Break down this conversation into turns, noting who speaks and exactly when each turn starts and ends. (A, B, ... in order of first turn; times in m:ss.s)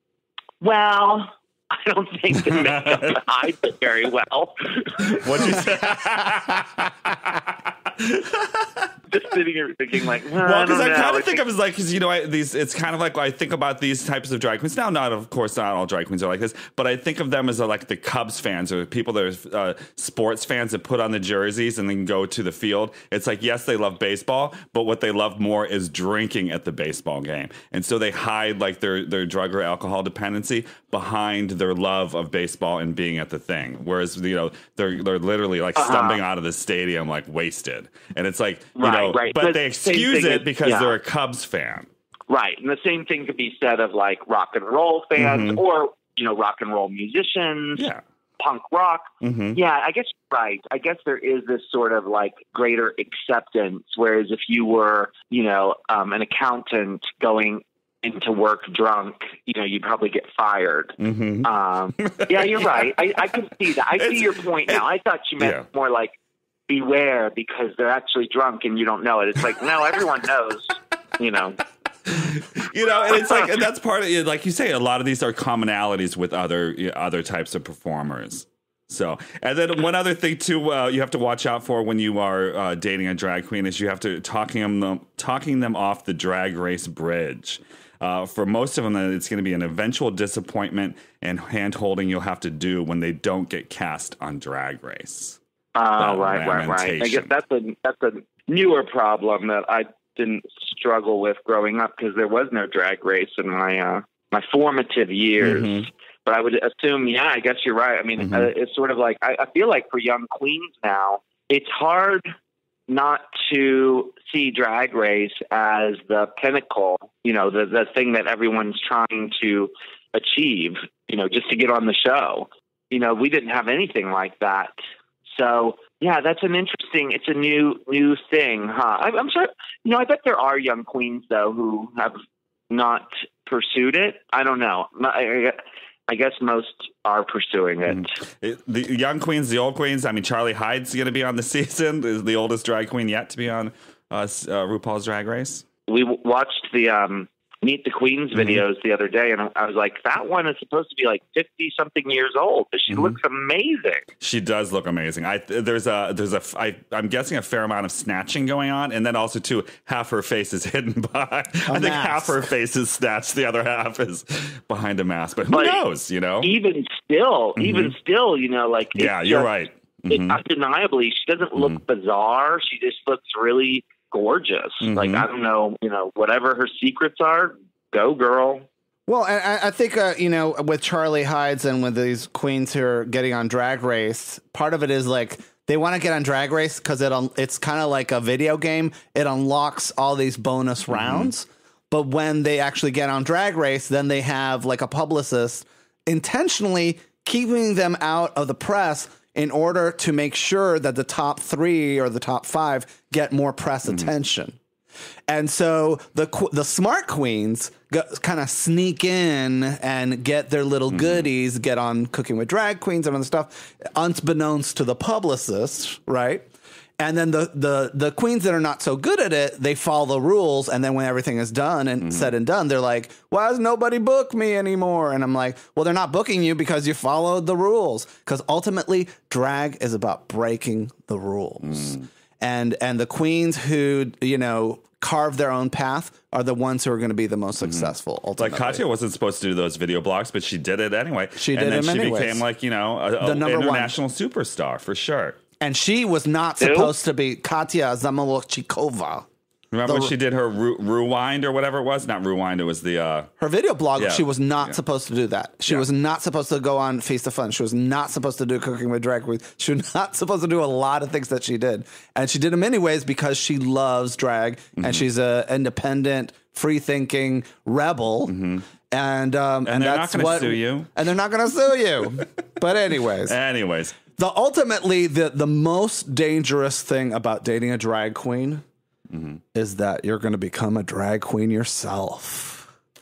0:00.6-0:05.6 A
0:02.5-0:03.1 B
0:05.0-0:08.9 B
0:09.1-0:11.4 A
0:10.4-0:41.9 B
0:35.8-0:36.2 A
0:38.8-0:41.0 A
0:42.3-0:47.9 A
0:45.2-0:45.6 B
0:48.4-1:06.2 A
0:49.2-0:49.6 B
1:01.0-1:03.4 B
1:03.9-1:04.8 B
1:05.4-1:05.7 B
1:06.7-1:11.6 A
1:12.1-1:35.4 B
1:13.1-1:13.5 A
1:35.8-1:52.3 A
1:36.0-1:37.3 B
1:45.4-1:45.8 B
1:48.2-1:48.5 B
1:52.9-2:04.7 A
2:05.3-2:12.2 A
2:12.7-2:18.1 A
2:17.9-2:25.6 B
2:25.9-2:34.0 A
2:28.4-2:28.6 B
2:34.2-2:46.6 B
2:41.7-2:42.4 C
2:45.5-2:45.8 A
2:46.4-2:49.5 A
2:47.6-2:47.9 B
2:49.0-2:50.4 B
2:50.1-2:58.7 A
2:54.8-2:55.3 B
2:59.1-3:24.6 C
3:10.9-3:11.3 B
3:25.3-3:36.5 C
3:30.9-3:31.2 B
3:37.0-3:58.8 C
3:51.6-3:52.1 B
3:57.6-4:05.4 B
4:01.4-4:02.4 C
4:03.2-4:04.0 C
4:05.6-4:09.3 C
4:06.6-4:06.9 A
4:09.7-4:13.3 B
4:09.9-4:10.1 C
4:13.4-4:28.4 C
4:14.0-4:14.8 B
4:28.3-4:28.7 B
4:28.9-4:33.4 C
4:29.7-4:30.9 B
4:33.3-4:34.0 B
4:34.2-4:38.6 C
4:39.1-4:39.4 B
4:39.5-4:42.7 C